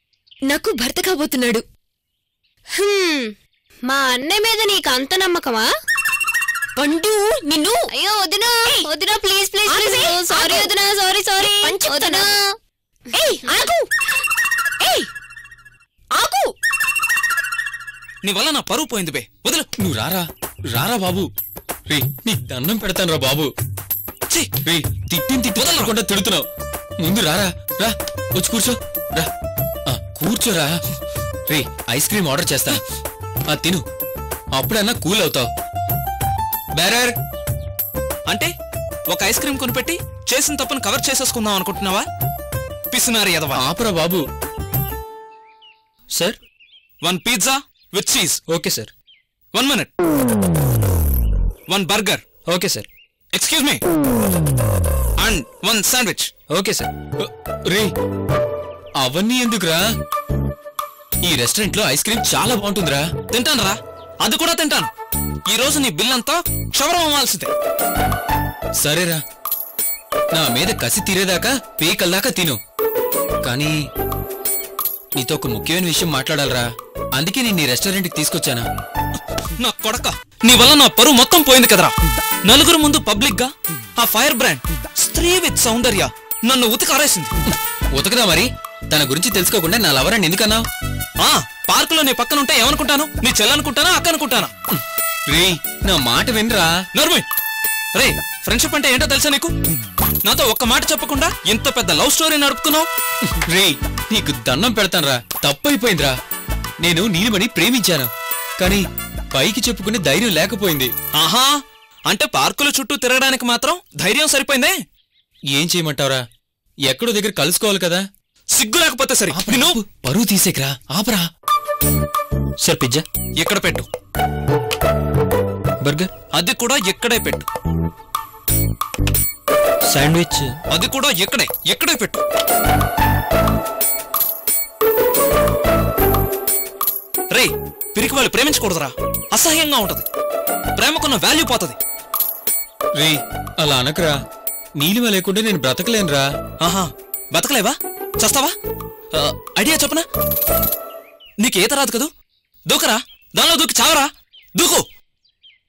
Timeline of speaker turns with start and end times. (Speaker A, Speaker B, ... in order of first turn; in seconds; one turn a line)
Speaker A: 0.7-1.1
Speaker A: 2.8-3.3
Speaker A: 3.9-5.7
Speaker A: 6.8-12.4
Speaker B: 7.5-7.9
Speaker B: 8.7-10.8
Speaker B: 11.4-12.3
Speaker B: 13.1-13.9
Speaker B: 14.8-15.1
Speaker B: 16.1-16.5
Speaker C: 18.2-19.7
Speaker D: 19.8-21.3
Speaker D: 21.9-23.5
Speaker D: 24.6-26.5
Speaker C: 25.6-25.9
Speaker D: 27.0-29.3
Speaker D: 29.9-30.7
Speaker D: 31.5-32.8
Speaker D: 33.5-33.8
Speaker D: 34.6-35.5
Speaker D: 36.8-37.1
Speaker C: 39.1-42.1
Speaker C: 42.9-43.6
Speaker D: 43.5-44.2
Speaker C: 47.0-48.4
Speaker D: 48.5-48.9
Speaker C: 49.5-49.9
Speaker C: 51.7-52.2
Speaker D: 52.5-52.9
Speaker C: 53.3-53.8
Speaker C: 55.2-56.3
Speaker D: 56.5-57.9
Speaker D: 59.0-59.8
Speaker D: 61.2-63.0
Speaker C: 63.3-64.9
Speaker C: 65.5-67.5
Speaker D: 68.8-69.2
Speaker D: 70.3-72.6
Speaker D: 73.4-73.7
Speaker D: 75.2-78.6
Speaker C: 79.6-81.9
Speaker C: 82.5-87.3
Speaker D: 87.9-90.6
Speaker C: 91.2-94.5
Speaker D: 95.3-96.7
Speaker C: 97.0-97.2
Speaker C: 98.0-99.5
Speaker C: 100.2-102.9
Speaker D: 103.5-106.1
Speaker D: 106.8-110.9
Speaker C: 111.2-111.5
Speaker C: 112.1-114.8
Speaker D: 115.5-116.2
Speaker D: 116.9-118.0
Speaker C: 118.5-119.8
Speaker D: 119.3-121.2
Speaker D: 122.6-123.0
Speaker C: 123.4-123.9
Speaker D: 125.8-126.1
Speaker C: 126.3-127.5
Speaker D: 129.9-130.6
Speaker C: 130.7-132.2
Speaker C: 137.3-140.1
Speaker C: 140.8-141.8
Speaker D: 143.0-144.2
Speaker D: 144.8-146.2
Speaker C: 146.6-148.5
Speaker C: 149.1-150.1
Speaker C: 151.4-152.1
Speaker C: 152.7-154.8